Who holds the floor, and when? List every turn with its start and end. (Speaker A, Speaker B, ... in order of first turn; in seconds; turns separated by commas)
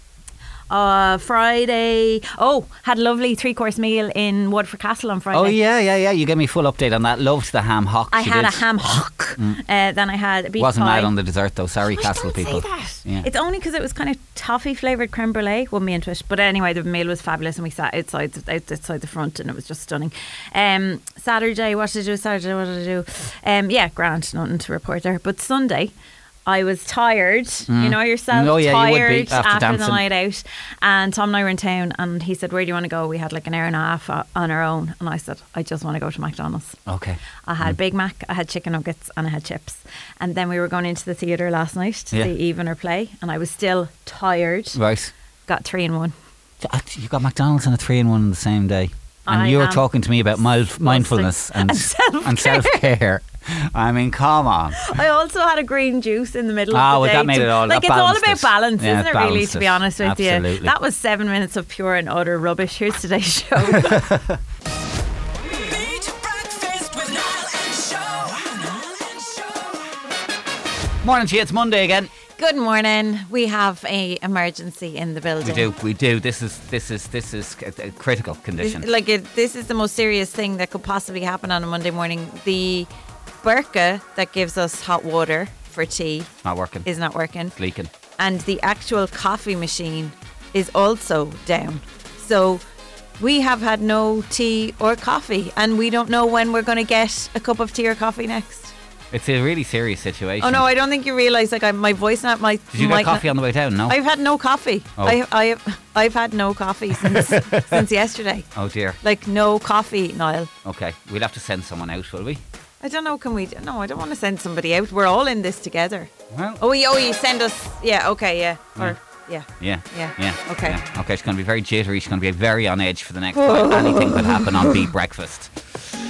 Speaker A: 0.7-5.6, Speaker B: 5.3-9.6, Speaker A: 8.1-11.1, Speaker B: 10.6-13.3, Speaker A: 11.8-25.9, Speaker A: 26.4-36.8, Speaker B: 27.7-30.0, Speaker B: 36.9-37.8, Speaker A: 37.5-44.8, Speaker B: 44.7-45.1, Speaker A: 45.5-46.1, Speaker B: 46.6-54.8, Speaker A: 49.3-49.8, Speaker A: 50.8-52.8, Speaker A: 54.8-64.1, Speaker B: 56.7-60.7, Speaker B: 63.7-64.4, Speaker C: 65.7-69.5, Speaker B: 71.0-72.1, Speaker A: 72.4-75.7, Speaker B: 75.4-78.9, Speaker A: 78.6-82.9, Speaker A: 83.4-86.3, Speaker B: 86.4-86.9, Speaker A: 86.8-87.5, Speaker B: 87.5-87.9, Speaker A: 88.2-92.6, Speaker A: 93.2-98.7, Speaker B: 99.1-100.7, Speaker A: 100.4-103.3, Speaker B: 102.7-104.0, Speaker A: 103.8-108.5, Speaker B: 107.0-107.8, Speaker B: 108.5-109.0, Speaker A: 109.0-110.5, Speaker B: 110.6-112.4, Speaker A: 112.8-120.8, Speaker B: 116.3-116.6, Speaker B: 119.6-125.8, Speaker A: 123.3-124.8